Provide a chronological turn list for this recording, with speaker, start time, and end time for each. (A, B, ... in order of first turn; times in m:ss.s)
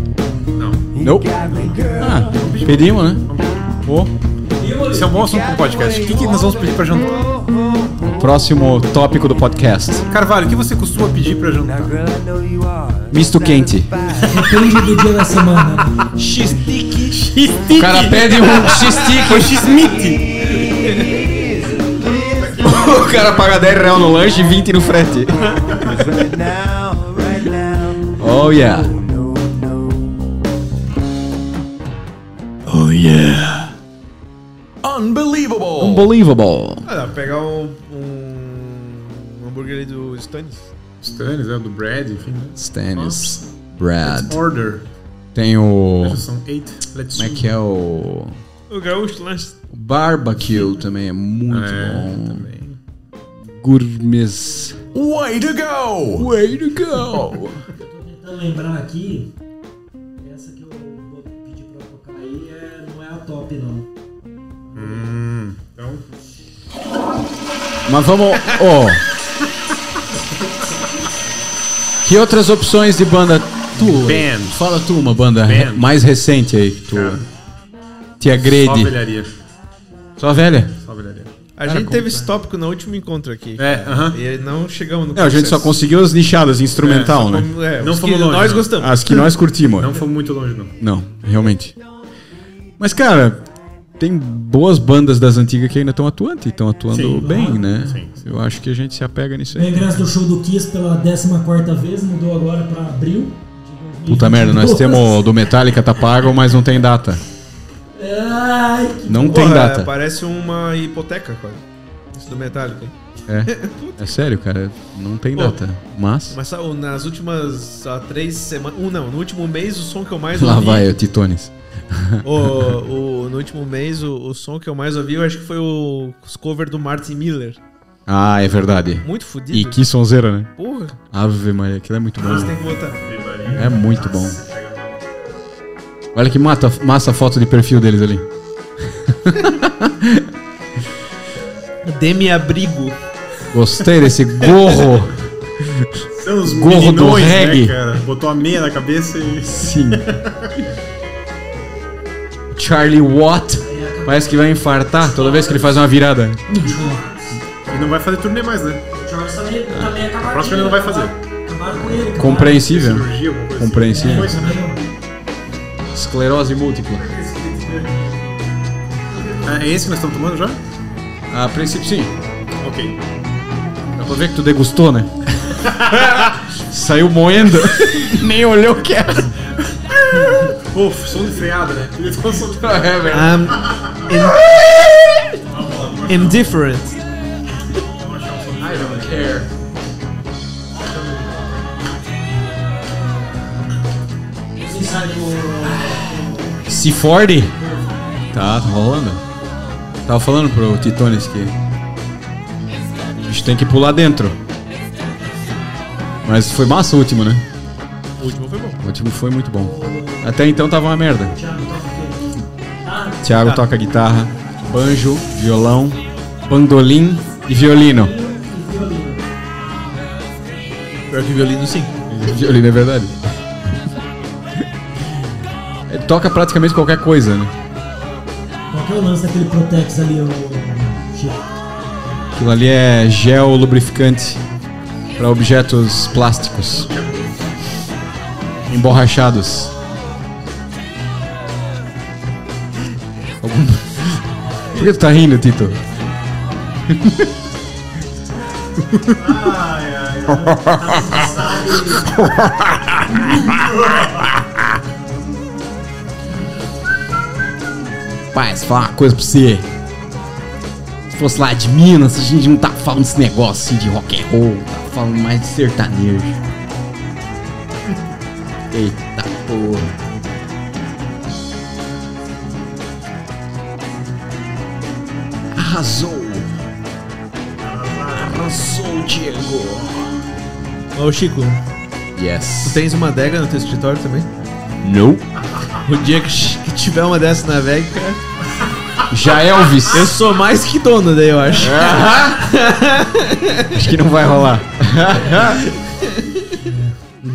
0:00.6-0:00.9 A
0:01.0-0:03.2 B
0:02.4-0:03.6 A
0:03.8-0:04.1 B
0:04.6-0:05.2 C
0:04.8-0:07.4 A
0:08.0-0:10.0 B
0:10.1-0:12.1 A
0:13.1-0:14.0 B
0:14.1-0:16.1 C
0:16.2-0:17.2 D
0:17.1-0:20.2 A
0:17.7-0:19.7 B
0:18.7-0:19.2 D
0:20.6-0:21.3 D
0:22.6-0:25.9 B
0:28.0-0:29.0 B
0:32.6-0:33.7 B
0:34.8-0:36.1 E
0:35.8-0:36.8 B
0:36.8-0:40.7 D
0:41.0-0:43.4 A
0:42.6-0:44.4 B
0:44.0-0:44.8 A
0:45.3-0:46.2 B
0:46.0-0:47.5 A
0:47.1-0:48.4 B
0:48.7-0:49.6 D
0:49.7-0:52.6 B
0:51.5-0:52.8 A
0:53.5-0:54.8 B
0:54.9-0:56.3 E
0:56.2-0:57.6 B
0:57.6-0:59.3 C
1:00.2-1:03.9 C
1:04.7-1:05.1 C
1:04.7-1:06.0 A
1:07.8-1:09.0 B
1:12.0-1:17.2 B
1:13.8-1:14.7 A
1:15.4-1:15.8 A
1:16.9-1:17.2 A
1:18.2-1:18.9 B
1:18.4-1:19.3 A
1:20.2-1:20.7 B
1:20.8-1:21.3 A
1:21.6-1:25.8 D
1:21.6-1:22.3 B
1:23.6-1:24.2 A
1:25.1-1:27.5 B
1:26.8-1:27.1 A
1:26.9-1:29.2 D
1:27.8-1:28.7 A
1:28.8-1:30.0 B
1:29.7-1:30.7 A
1:30.8-1:31.8 B
1:32.8-1:33.4 B
1:34.0-1:40.0 B
1:36.9-1:38.3 A
1:39.5-1:45.2 C
1:44.1-1:47.2 B
1:47.9-1:49.6 C
1:49.0-1:49.9 B
1:49.3-1:52.9 D
1:53.3-1:56.4 B
1:53.5-1:54.1 D
1:56.3-2:00.9 D
2:00.3-2:02.7 B
2:02.2-2:07.6 D
2:08.1-2:10.5 B
2:09.0-2:09.8 D
2:10.6-2:11.0 D
2:11.1-2:12.6 B
2:12.2-2:13.0 D
2:12.2-2:15.0 A
2:13.5-2:14.4 B
2:16.1-2:18.3 B
2:18.9-2:20.3 B
2:21.8-2:23.0 D
2:23.5-2:25.9 B
2:26.1-2:30.5 A
2:26.4-2:27.8 B
2:29.5-2:30.1 B
2:32.5-2:36.4 B
2:33.6-2:34.7 C
2:36.5-2:37.4 C
2:37.6-2:38.8 A
2:38.9-2:42.6 C
2:40.2-2:41.1 A
2:41.8-2:44.3 B
2:42.4-2:44.6 A
2:43.9-2:44.8 C
2:45.9-2:47.1 B
2:47.1-2:47.9 A
2:49.4-2:50.6 A
2:51.3-2:52.1 B
2:52.6-2:53.0 A
2:54.0-2:55.1 B
2:55.7-2:59.3 B
3:00.0-3:00.5 B
3:00.2-3:04.1 A
3:02.6-3:03.5 B
3:03.1-3:04.4 D
3:04.1-3:05.2 B
3:05.5-3:06.5 A
3:06.1-3:07.0 D
3:08.0-3:09.4 A
3:08.6-3:09.5 B
3:10.8-3:11.5 A
3:14.6-3:16.4 C
3:16.6-3:17.6 B
3:17.6-3:18.1 C
3:18.3-3:19.2 B
3:20.0-3:21.5 B
3:23.2-3:24.4 B
3:26.2-3:27.4 B
3:28.2-3:28.8 D
3:28.8-3:31.4 B
3:29.6-3:30.3 C
3:31.3-3:33.3 C
3:33.2-3:38.1 B
3:33.4-3:33.7 D
3:37.5-3:39.2 C
3:41.1-3:41.9 D
3:42.1-3:43.4 B
3:45.9-3:47.5 B
3:48.7-3:51.4 C
3:52.3-3:54.4 B
3:55.2-3:56.9 B
3:56.8-3:57.3 A
3:58.7-3:59.7 B
4:03.4-4:05.8 B
4:06.9-4:07.3 B
4:09.1-4:12.2 A
4:10.3-4:12.1 C
4:13.4-4:14.3 A
4:18.3-4:19.7 B
4:21.1-4:26.4 B
4:28.7-4:29.9 B
4:35.6-4:36.5 B
4:37.6-4:38.4 A
4:38.2-4:40.2 B
4:40.9-4:41.6 D
4:42.2-4:42.8 B
4:42.6-4:44.3 D
4:44.8-4:45.2 B
4:45.8-4:48.2 D
4:49.1-4:50.2 B
4:49.9-4:53.8 D
4:51.5-4:52.5 B
4:53.7-4:55.6 B
4:55.5-4:56.4 D
4:56.6-4:57.0 C